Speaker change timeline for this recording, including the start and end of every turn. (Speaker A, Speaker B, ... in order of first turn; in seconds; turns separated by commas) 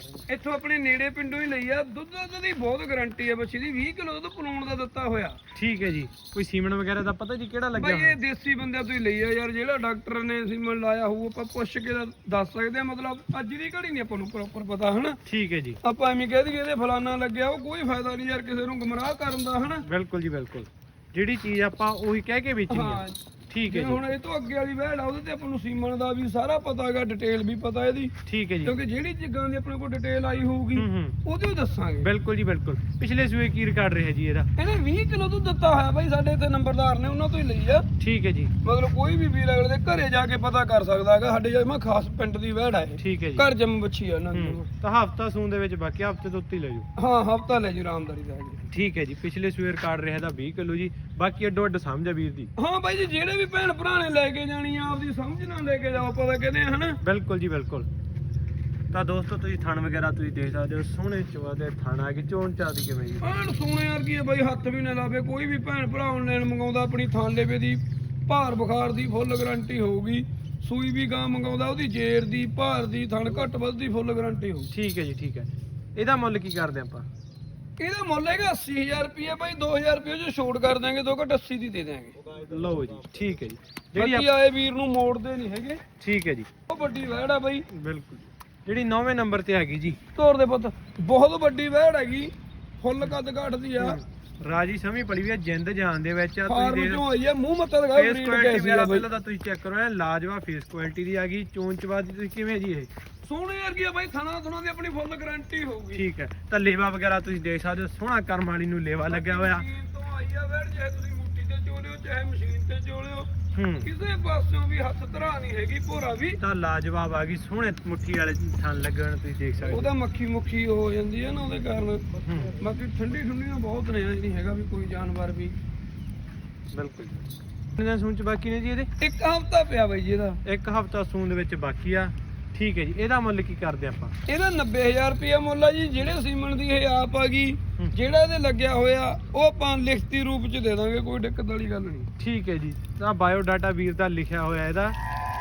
Speaker A: 0.3-5.4, Speaker B: 5.5-8.2, Speaker A: 7.8-15.2, Speaker B: 15.2-15.8, Speaker A: 15.8-19.9, Speaker B: 19.9-24.0, Speaker A: 22.7-32.1, Speaker B: 28.2-28.8, Speaker B: 30.8-31.2, Speaker B: 32.0-34.5, Speaker A: 34.6-37.9, Speaker B: 38.0-38.5, Speaker A: 38.6-44.7, Speaker B: 43.0-43.5, Speaker B: 44.3-46.9, Speaker A: 47.0-48.6, Speaker B: 48.7-52.5, Speaker A: 52.6-57.0, Speaker B: 57.0-57.9, Speaker B: 58.9-63.4, Speaker A: 63.2-74.7, Speaker B: 74.7-77.1, Speaker A: 77.8-82.2, Speaker B: 82.3-84.3, Speaker A: 84.0-85.8, Speaker B: 86.0-86.5, Speaker A: 86.7-87.7, Speaker B: 87.7-90.0, Speaker A: 90.1-94.0, Speaker B: 93.8-97.0, Speaker A: 96.5-99.1, Speaker B: 97.9-102.9, Speaker A: 103.2-106.0, Speaker B: 105.9-109.7, Speaker A: 109.1-113.3, Speaker B: 113.5-113.9, Speaker A: 113.8-116.4, Speaker B: 116.4-119.9, Speaker A: 119.7-125.5, Speaker B: 122.2-122.6, Speaker B: 126.7-128.9, Speaker A: 129.0-130.4, Speaker B: 130.4-134.1, Speaker A: 134.3-142.1, Speaker B: 142.2-145.0